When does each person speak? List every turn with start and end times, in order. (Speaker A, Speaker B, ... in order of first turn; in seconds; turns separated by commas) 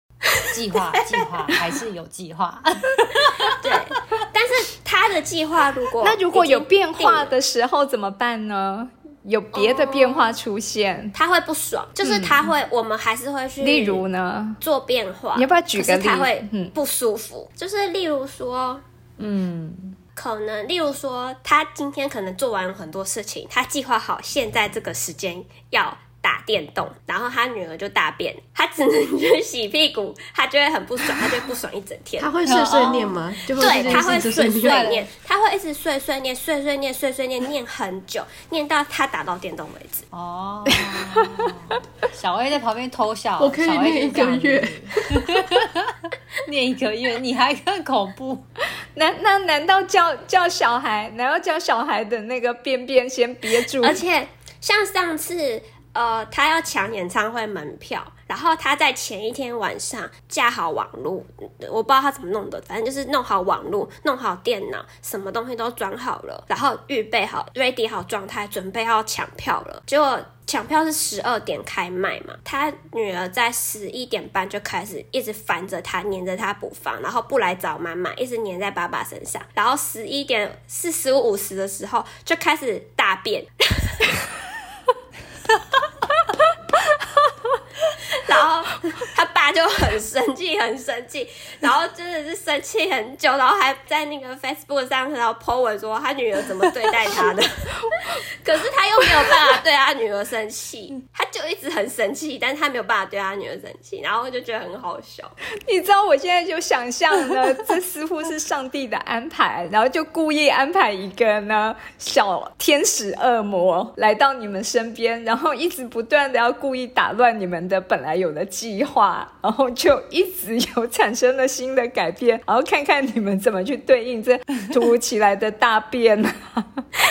Speaker A: 0.4-3.8, Speaker B: 3.6-7.3, Speaker C: 6.0-11.2, Speaker B: 9.5-10.4, Speaker B: 11.1-14.0, Speaker C: 12.1-12.3, Speaker C: 13.6-14.6, Speaker B: 14.6-18.8, Speaker C: 15.3-16.7, Speaker A: 19.2-20.0, Speaker B: 20.2-32.3, Speaker D: 32.2-34.9, Speaker A: 32.5-35.1, Speaker B: 33.5-40.1, Speaker A: 40.1-48.4, Speaker C: 40.8-41.5, Speaker D: 43.4-45.5, Speaker C: 49.0-54.0, Speaker B: 53.6-84.2, Speaker B: 88.1-105.3, Speaker C: 105.6-126.8